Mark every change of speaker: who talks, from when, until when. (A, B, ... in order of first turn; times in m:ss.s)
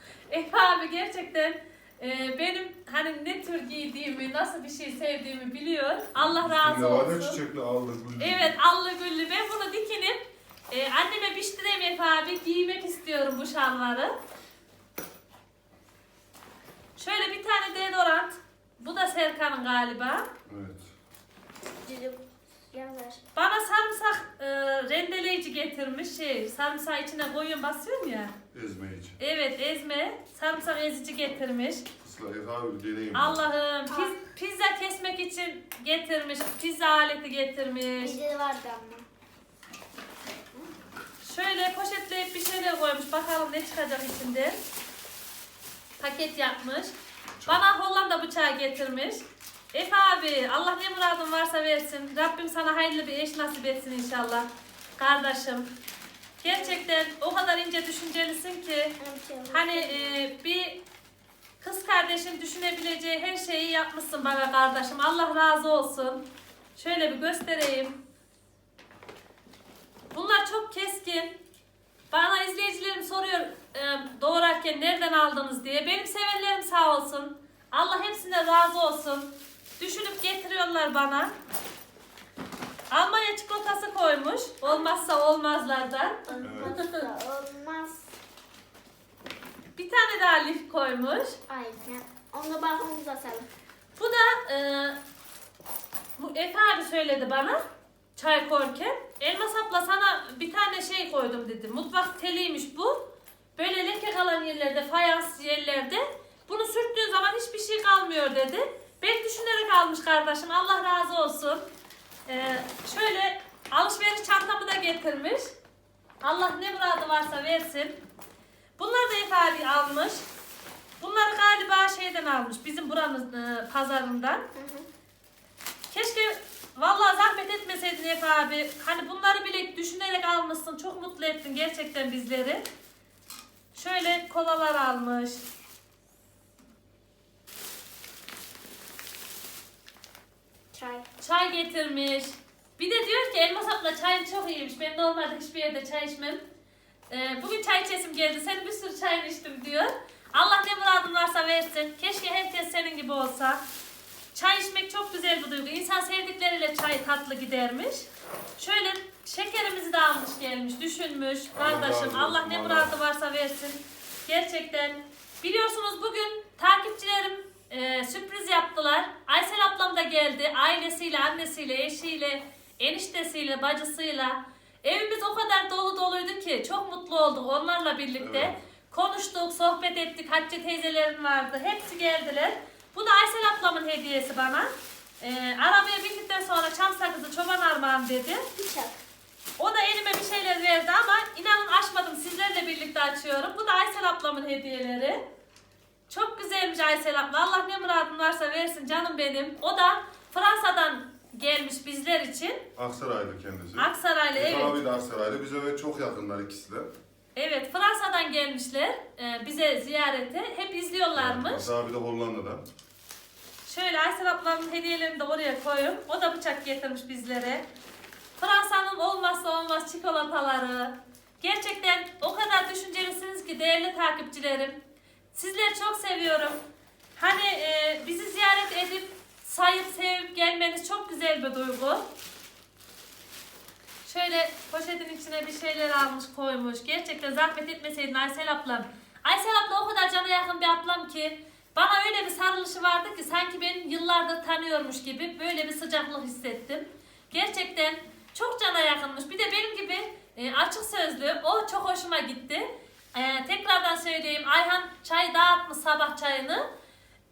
0:00.3-0:07.4 A
0:06.2-0:08.5 B
0:08.2-0:14.2 A
0:17.0-0:20.3 A
0:20.4-0:20.9 B
0:21.8-0:23.2 C
0:23.4-0:28.4 A
0:28.5-0:29.2 B
0:29.2-0:31.9 A
0:32.0-0:33.4 B
0:33.1-0:38.2 A
0:33.9-0:34.2 C
0:38.0-0:39.1 C
0:41.2-0:44.6 A
0:46.0-0:54.5 A
0:55.0-0:55.7 A
0:56.4-0:59.0 A
0:56.4-0:56.8 C
0:59.0-1:00.2 C
0:59.5-1:00.8 A
1:01.6-1:08.0 A
1:10.1-1:11.4 A
1:12.1-1:21.3 A
1:22.9-1:27.1 A
1:26.2-1:28.1 C
1:26.4-1:26.8 B
1:29.8-1:31.4 A
1:31.5-1:33.5 C
1:34.0-1:35.0 A
1:36.2-1:37.6 A
1:38.2-1:51.7 A
1:52.3-1:55.5 A
1:56.2-1:58.0 A
1:58.8-2:00.2 A
2:01.0-2:04.4 A
2:04.5-2:04.9 C
2:05.9-2:12.6 A
2:13.7-2:15.4 A
2:20.7-2:21.1 C
2:21.2-2:26.4 A
2:27.1-2:33.6 A
2:34.3-3:04.7 A
2:41.6-2:42.9 B
2:58.2-2:58.6 B
3:05.2-3:08.5 A
3:08.5-3:09.0 C
3:09.6-3:15.2 A
3:16.1-3:22.7 A
3:22.8-3:26.9 B
3:23.8-3:24.8 A
3:27.4-3:31.7 A
3:31.1-3:32.6 B
3:33.6-3:37.7 A
3:38.4-3:44.8 A
3:45.3-3:46.6 A
3:47.2-3:52.1 A
3:54.0-4:16.7 A